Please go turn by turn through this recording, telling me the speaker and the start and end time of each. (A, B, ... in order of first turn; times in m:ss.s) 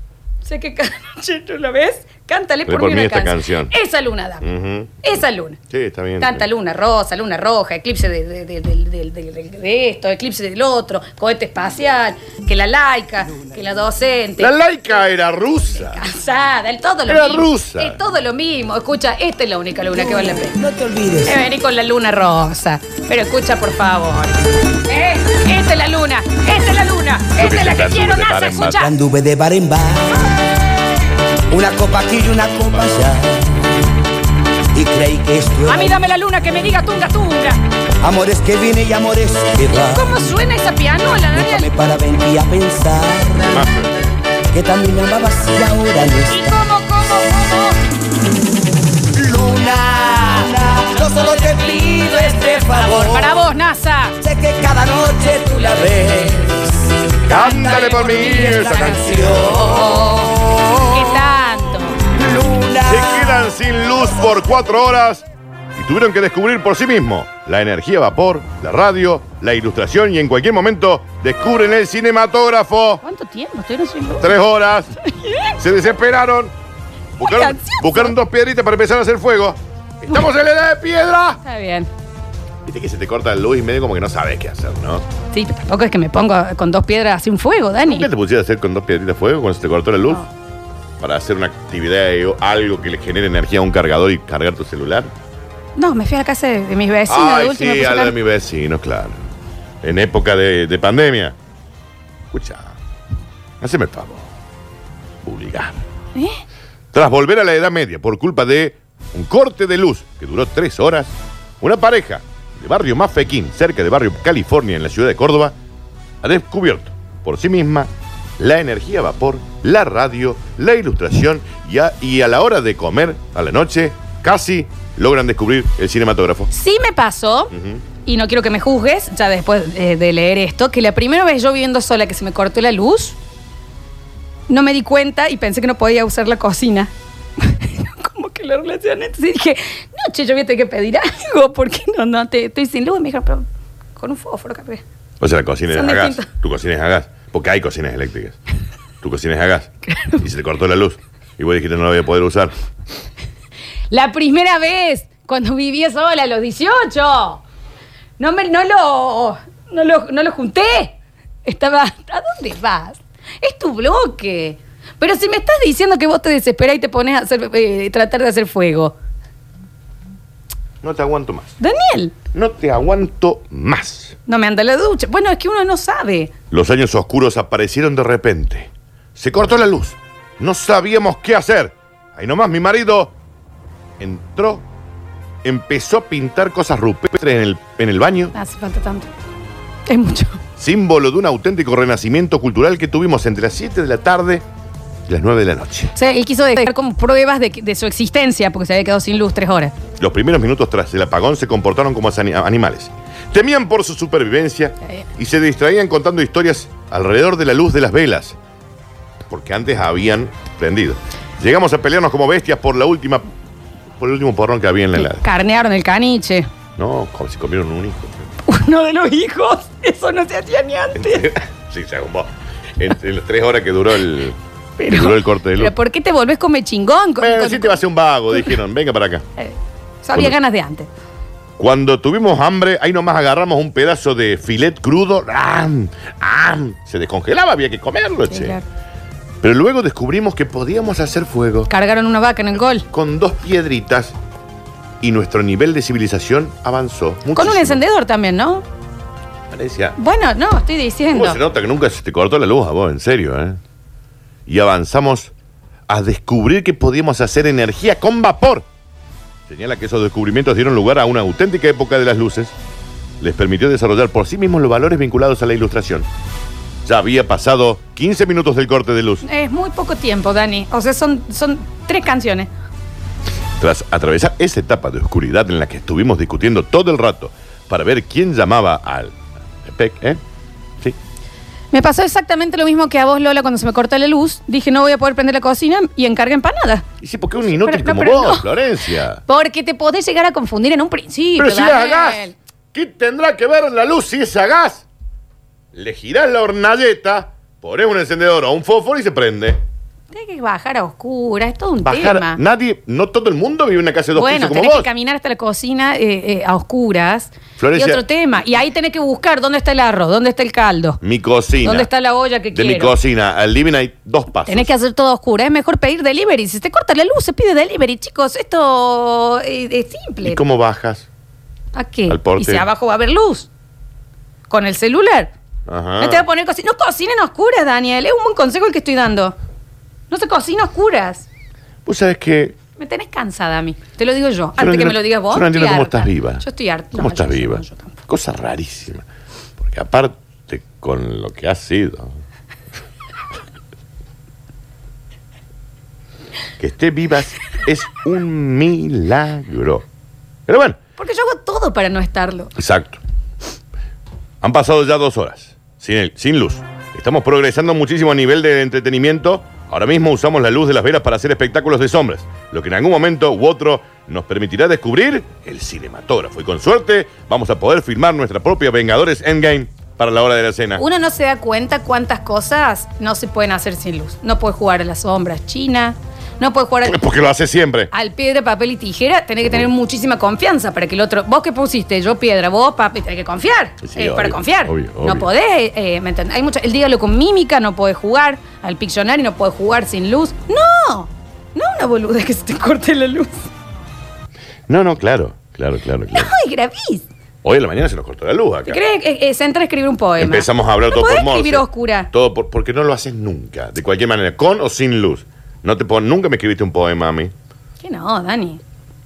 0:00.4-0:04.5 A
0:02.7-0:03.7 B
0:04.4-0:05.0 B
0:05.0-0:05.6 A
0:05.7-0:06.5 B
0:06.2-0:14.5 A
0:14.4-0:16.0 B
0:15.8-0:20.6 A
0:17.1-0:18.0 B
0:19.9-0:21.4 C
0:21.2-0:28.9 A
0:27.4-0:28.8 B
0:28.7-0:30.4 C
0:31.5-0:33.6 C
0:34.7-0:36.0 C
0:35.7-0:37.6 A
0:38.0-0:40.4 C
0:39.7-0:41.7 A
0:41.3-0:43.6 C
0:43.4-0:44.1 B
0:44.5-0:46.7 C
0:46.3-0:47.8 A
0:49.1-0:53.4 C
0:49.6-0:54.2 A
0:54.2-1:01.1 C
0:55.6-0:56.1 A
0:57.3-0:59.7 B
0:57.3-1:02.0 A
1:02.1-1:03.5 C
1:02.8-1:05.2 B
1:05.8-1:13.0 B
1:13.0-1:14.4 A
1:14.2-1:14.9 B
1:15.0-1:15.6 A
1:15.6-1:16.5 B
1:17.2-1:21.4 B
1:17.2-1:18.2 A
1:21.4-1:21.9 A
1:22.6-1:25.0 B
1:25.3-1:28.1 A
1:27.8-1:30.3 B
1:31.0-1:35.1 B
1:35.8-1:38.2 A
1:37.1-1:39.2 B
1:39.8-1:41.4 B
1:42.3-1:42.8 B
1:43.6-1:44.3 B
1:45.2-1:45.8 B
1:46.2-1:46.4 A
1:46.9-1:55.6 B
1:56.2-2:06.5 B
2:06.5-2:07.5 A
2:07.5-2:07.8 B
2:08.0-2:13.2 A
2:14.5-2:24.8 A
2:25.2-2:28.4 B
2:25.7-2:26.3 A
2:29.0-2:32.5 B
2:29.9-2:30.2 A
2:33.9-2:37.4 A
2:38.2-2:49.0 A
2:50.8-2:51.5 B
2:51.6-2:52.2 A
2:52.3-2:54.2 B
2:54.3-2:56.3 A
2:56.5-3:03.2 B
3:04.0-3:04.6 B
3:05.4-3:08.3 B
3:08.3-3:09.1 A
3:09.9-3:10.4 A
3:10.6-3:14.4 B
3:15.1-3:15.9 B
3:16.0-3:19.7 A
3:20.0-3:28.4 B
3:29.3-3:33.3 B
3:34.0-3:35.3 B
3:35.0-3:36.5 A
3:36.8-3:38.3 B
3:38.4-3:41.3 A
3:41.0-3:45.7 B
3:44.8-3:47.8 A
3:47.2-3:49.2 B
3:49.4-3:50.9 A
3:51.6-3:58.6 B
3:58.3-3:58.6 A
3:59.4-4:01.7 B
4:01.7-4:02.9 A
4:02.9-4:04.2 B
4:05.0-4:07.8 B
4:07.3-4:08.6 A
4:09.5-4:10.0 B
4:10.0-4:11.4 A
4:11.1-4:13.6 B
4:14.5-4:15.3 B
4:15.9-4:18.7 B
4:19.5-4:22.5 B
4:23.2-4:26.1 B
4:26.8-4:29.2 B
4:29.2-4:32.5 A
4:33.6-4:40.2 B
4:41.7-4:46.9 A
4:47.0-4:49.2 B
4:47.6-4:48.5 A
4:49.3-4:52.4 A
4:51.4-4:54.9 B
4:55.7-4:59.6 B
5:00.1-5:02.4 A
5:01.8-5:04.9 B
5:04.2-5:11.0 A
5:07.6-5:08.0 B
5:11.0-5:11.9 B
5:11.6-5:13.0 A
5:12.5-5:14.7 B
5:14.5-5:20.4 A
5:20.2-5:21.1 B
5:21.7-5:23.5 A
5:22.1-5:22.7 B
5:24.5-5:25.3 A
5:25.7-5:26.2 B
5:26.0-5:29.4 A
5:30.1-5:31.3 A
5:31.9-5:32.6 B
5:32.8-5:38.0 A
5:34.6-5:39.0 B
5:39.6-5:42.2 B
5:46.6-5:49.8 B
5:50.5-5:50.8 B
5:51.0-5:52.5 A
5:52.6-5:53.0 B
5:54.4-6:10.8 B
6:10.8-6:17.0 A
6:16.8-6:17.9 B
6:17.9-6:33.5 A
6:23.8-6:25.3 B
6:34.7-6:36.3 B
6:36.1-6:37.0 A
6:37.4-6:38.8 B
6:38.7-6:42.1 A
6:40.2-6:47.3 B
6:47.8-6:48.6 A